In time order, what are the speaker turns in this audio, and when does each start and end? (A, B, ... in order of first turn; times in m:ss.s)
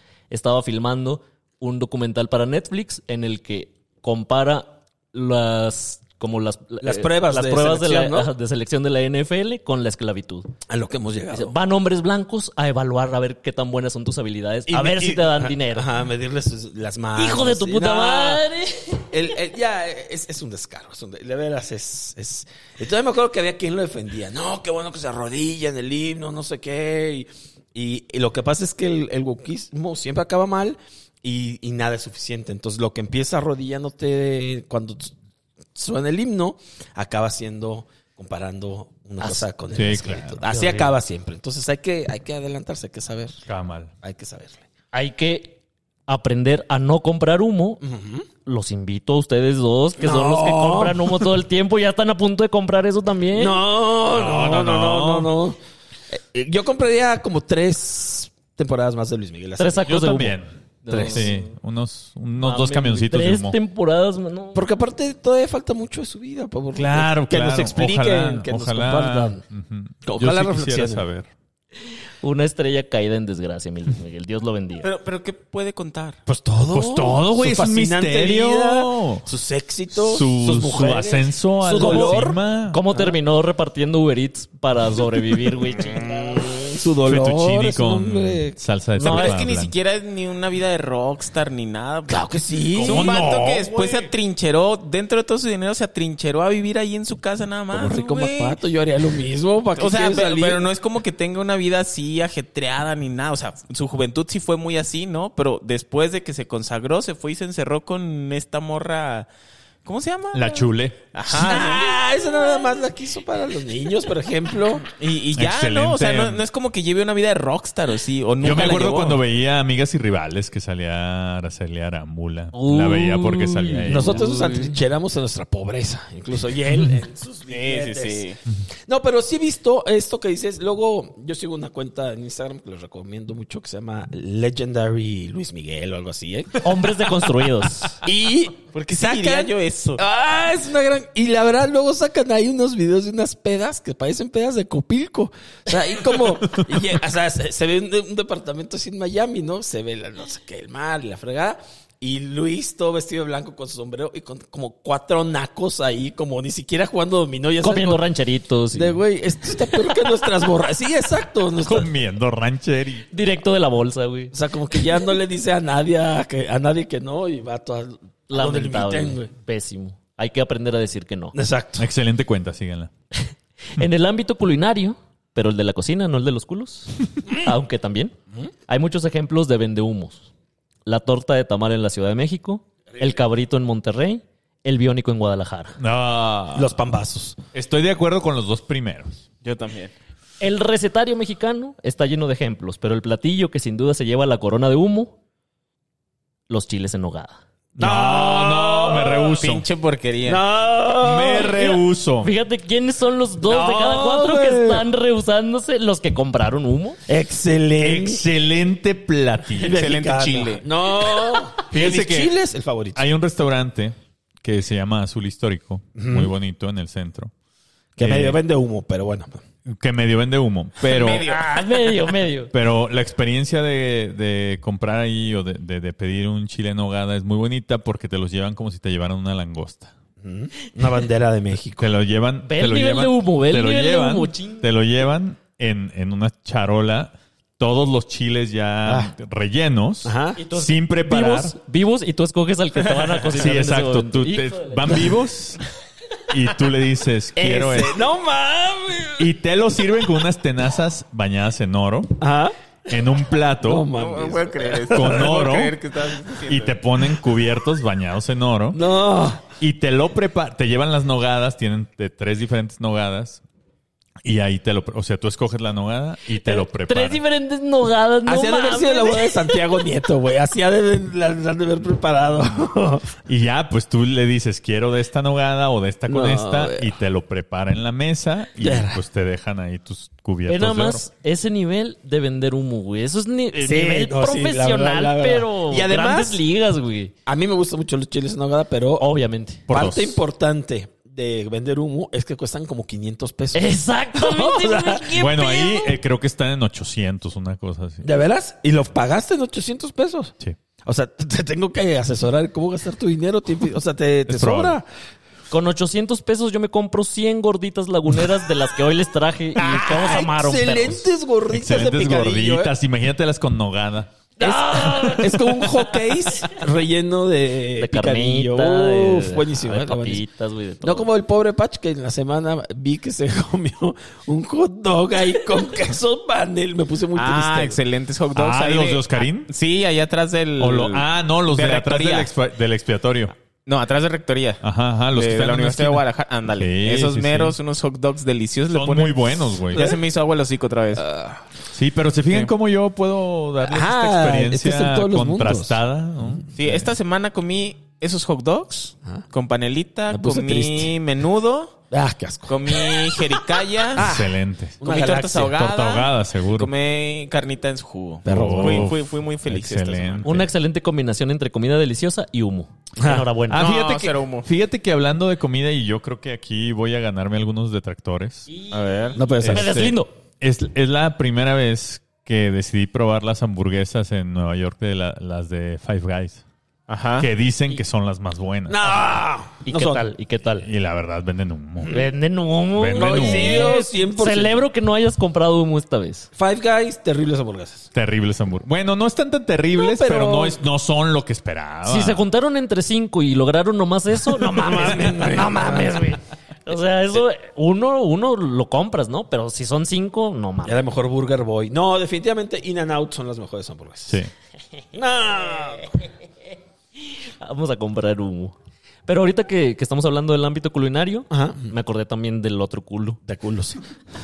0:00.3-0:10.5 A
0:06.8-0:08.3 B
0:10.7-0:11.5 B
0:11.3-0:15.9 A
0:14.7-0:18.4 B
0:17.2-0:19.1 A
0:19.1-0:35.1 B
0:35.8-0:43.4 B
0:39.2-0:39.4 A
0:39.7-0:40.4 C
0:40.5-0:41.0 A
0:43.5-0:43.9 C
0:44.0-0:44.6 B
0:44.9-0:47.8 A
0:47.8-0:48.3 B
0:48.4-0:53.6 A
0:50.0-0:51.3 B
0:53.3-0:55.6 B
0:54.0-0:55.3 C
0:56.1-1:00.1 B
0:59.6-1:01.5 A
0:59.8-1:03.6 C
1:02.4-1:04.6 A
1:04.5-1:09.4 B
1:06.7-1:11.3 C
1:10.0-1:11.0 B
1:12.2-1:14.9 A
1:14.8-1:16.2 D
1:16.2-1:22.4 B
1:16.7-1:19.2 C
1:19.9-1:22.8 C
1:21.6-1:26.0 A
1:25.8-1:26.4 D
1:25.8-1:28.6 B
1:27.0-1:29.7 C
1:29.0-1:29.3 A
1:29.0-1:38.6 D
1:32.1-1:33.2 B
1:32.8-1:34.1 C
1:37.7-1:40.6 B
1:39.8-1:49.3 D
1:49.8-1:51.9 D
1:50.3-1:51.0 C
1:51.3-1:54.9 B
1:54.9-1:59.2 D
1:55.4-1:56.4 C
1:58.4-2:04.4 C
2:02.5-2:04.8 A
2:03.9-2:08.3 B
2:07.5-2:08.4 D
2:08.9-2:17.3 B
2:16.6-2:18.0 A
2:17.9-2:38.0 B
2:18.7-2:20.0 D
2:37.6-2:39.0 A
2:38.7-2:41.9 B
2:41.6-2:43.1 C
2:43.1-2:44.3 A
2:44.3-2:49.3 B
2:48.3-2:51.4 A
2:51.3-2:51.9 B
2:51.8-2:52.9 C
2:53.7-2:58.1 A
2:58.7-3:00.3 A
3:00.8-3:05.8 A
3:05.8-3:06.8 C
3:06.5-3:07.4 B
3:07.5-3:09.2 C
3:09.4-3:09.9 D
3:10.4-3:15.1 A
3:16.5-3:17.4 A
3:17.7-3:19.6 C
3:17.8-3:19.4 B
3:19.3-3:20.4 D
3:20.2-3:21.7 B
3:21.0-3:22.3 C
3:22.2-3:27.0 A
3:23.4-3:24.8 B
3:27.1-3:28.2 B
3:27.8-3:29.8 C
3:29.6-3:33.0 B
3:29.6-3:30.6 D
3:31.7-3:32.4 C
3:32.9-3:37.3 C
3:36.0-3:36.3 B
3:38.0-3:39.4 B
3:38.0-3:38.4 C
3:39.6-3:41.3 C
3:40.8-3:42.0 D
3:41.2-3:42.5 A
3:42.5-3:49.9 C
3:50.2-3:51.9 B
3:51.8-4:01.5 C
3:52.4-3:54.7 A
3:58.8-3:59.1 B
4:00.0-4:00.4 B
4:00.4-4:05.1 A
4:03.3-4:05.6 C
4:06.3-4:08.0 C
4:07.4-4:09.3 B
4:09.2-4:12.2 C
4:12.2-4:12.6 B
4:12.9-4:13.9 C
4:13.6-4:15.3 B
4:13.9-4:16.8 D
4:14.9-4:15.8 C
4:16.4-4:18.8 C
4:18.7-4:19.4 B
4:19.6-4:23.4 C
4:24.2-4:27.2 C
4:26.3-4:29.7 A
4:28.2-4:33.1 B
4:33.3-4:41.0 C
4:36.1-4:36.9 B
4:38.6-4:39.0 B
4:40.5-4:47.1 A
4:43.6-4:46.4 B
4:47.2-4:49.1 B
4:49.0-4:49.7 A
4:49.7-4:50.2 C
4:49.7-4:55.4 B
4:53.5-4:55.9 A
4:55.1-4:58.1 C
4:58.0-5:00.3 B
5:00.8-5:04.8 B
5:04.3-5:04.8 C
5:05.5-5:11.0 A
5:09.6-5:12.7 B
5:11.5-5:14.1 C
5:14.4-5:16.3 A
5:14.4-5:20.2 B
5:17.8-5:21.1 A
5:20.8-5:27.8 B
5:27.1-5:32.3 D
5:28.3-5:29.5 C
5:30.6-5:33.3 C
5:33.6-5:34.6 D
5:34.6-5:37.6 C
5:35.1-5:41.0 D
5:38.7-5:39.9 C
5:39.7-5:40.0 B
5:41.0-5:41.4 B
5:41.7-5:46.9 C
5:43.6-5:45.8 B
5:46.6-5:51.8 D
5:50.1-5:50.9 B
5:51.9-5:53.3 B
5:52.5-5:54.2 D
5:53.9-5:55.6 B
5:53.9-5:56.7 C
5:54.8-6:00.3 D
5:58.2-5:58.9 B
5:58.2-6:00.5 C
6:00.2-6:03.7 A
6:03.0-6:03.3 B
6:03.5-6:08.5 C
6:03.5-6:04.5 D
6:08.5-6:10.1 A
6:08.7-6:09.2 D
6:09.2-6:09.7 B
6:09.4-6:16.4 C
6:16.9-6:17.3 D
6:17.2-6:19.2 C
6:18.7-6:20.1 B
6:19.6-6:20.7 A
6:20.6-6:22.0 C
6:21.8-6:22.1 B
6:21.9-6:26.3 A
6:22.7-6:23.8 C
6:22.9-6:24.7 B
6:26.3-6:27.9 B
6:27.9-6:32.2 C
6:29.8-6:30.6 B
6:31.8-6:40.8 A
6:34.4-6:36.0 B
6:40.6-6:44.2 B
6:44.9-6:45.9 B
6:47.4-6:48.5 A
6:49.0-6:53.2 A
6:51.3-6:51.7 B
6:53.2-6:53.8 B